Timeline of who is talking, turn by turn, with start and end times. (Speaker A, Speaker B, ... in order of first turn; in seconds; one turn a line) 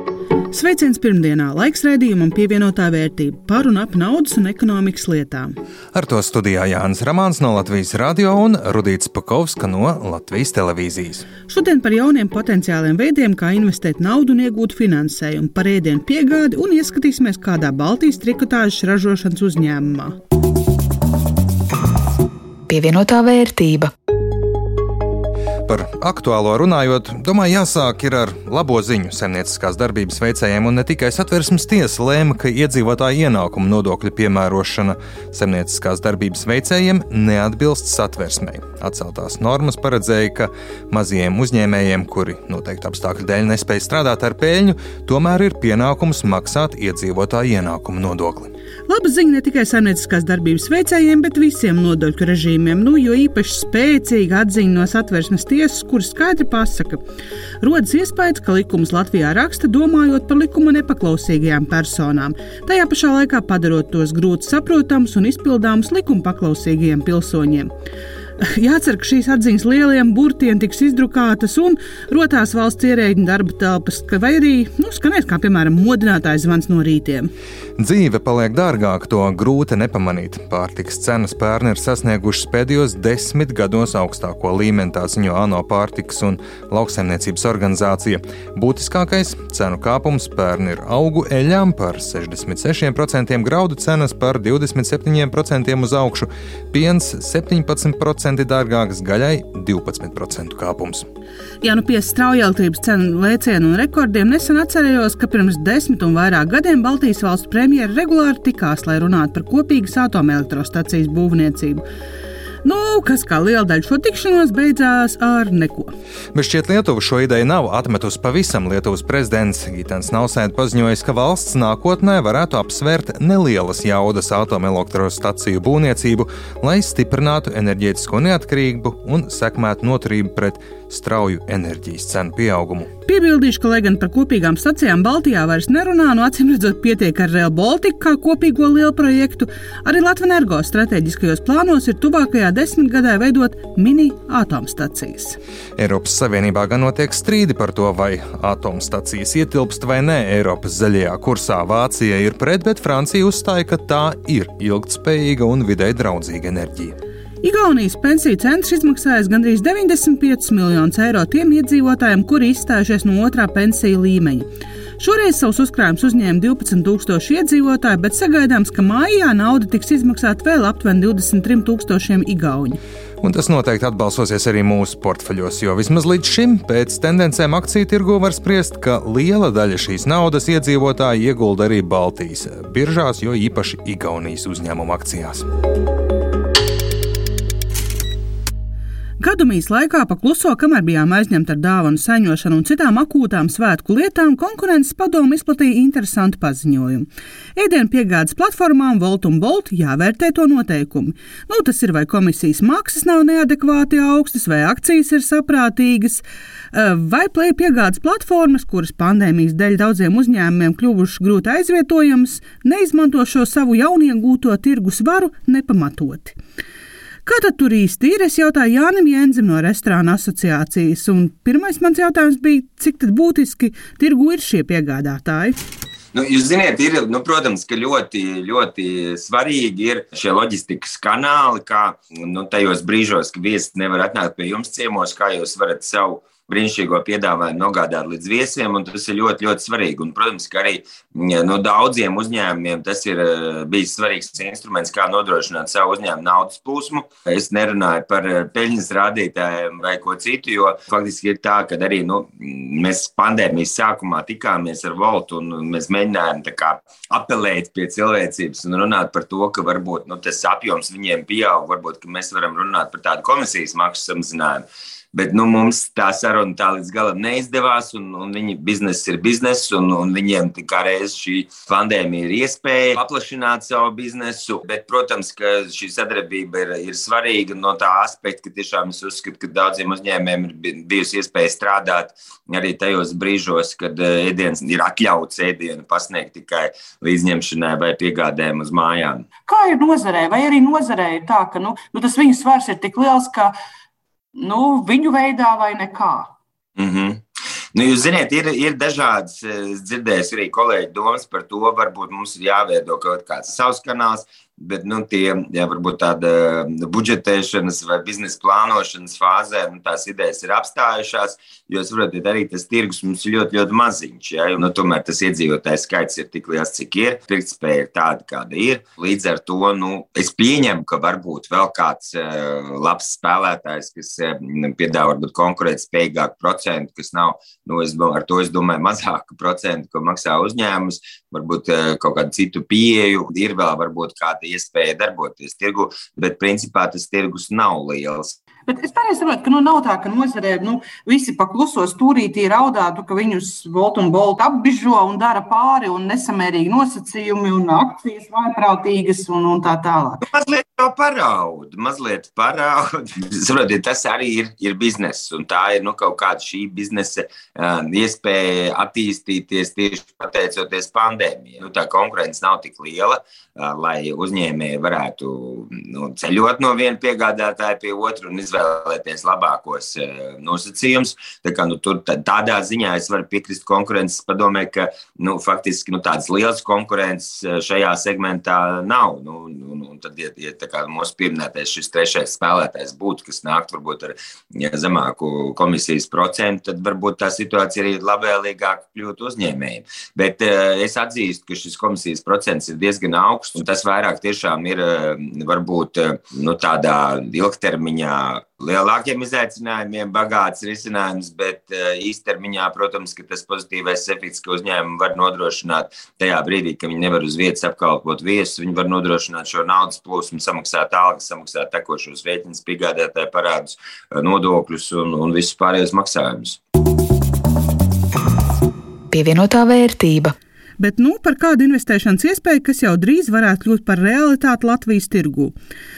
Speaker A: 0.5-5.5
Speaker B: 5.9-11.3
Speaker A: 11.4-20.2
Speaker C: 22.7-23.9
Speaker B: 25.7-48.5
Speaker A: 48.9-57.0
Speaker A: 57.6-67.7
Speaker A: 68.4-77.3
Speaker B: 77.8-101.1
Speaker A: 101.6-111.8
Speaker A: 112.6-115.9
Speaker B: 116.3-132.9
Speaker A: 133.1-145.4
Speaker B: 145.8-156.9
Speaker A: 157.4-172.8
Speaker B: 173.2-185.4
Speaker A: 189.2-216.3
Speaker A: 217.2-225.6
Speaker D: 226.1-289.3
Speaker E: 289.4-293.5
Speaker A: 289.5-293.3
Speaker E: 294.4-296.3
Speaker A: 294.5-296.1
Speaker D: 296.8-297.2
Speaker D: 297.7-338.3
Speaker A: 338.7-350.2
Speaker E: 339.4-340.4
Speaker E: 341.1-341.5
Speaker E: 342.9-343.2
Speaker E: 344.6-349.2
Speaker D: 350.3-416.6
Speaker C: 419.1-420.3
Speaker A: 420.8-425.5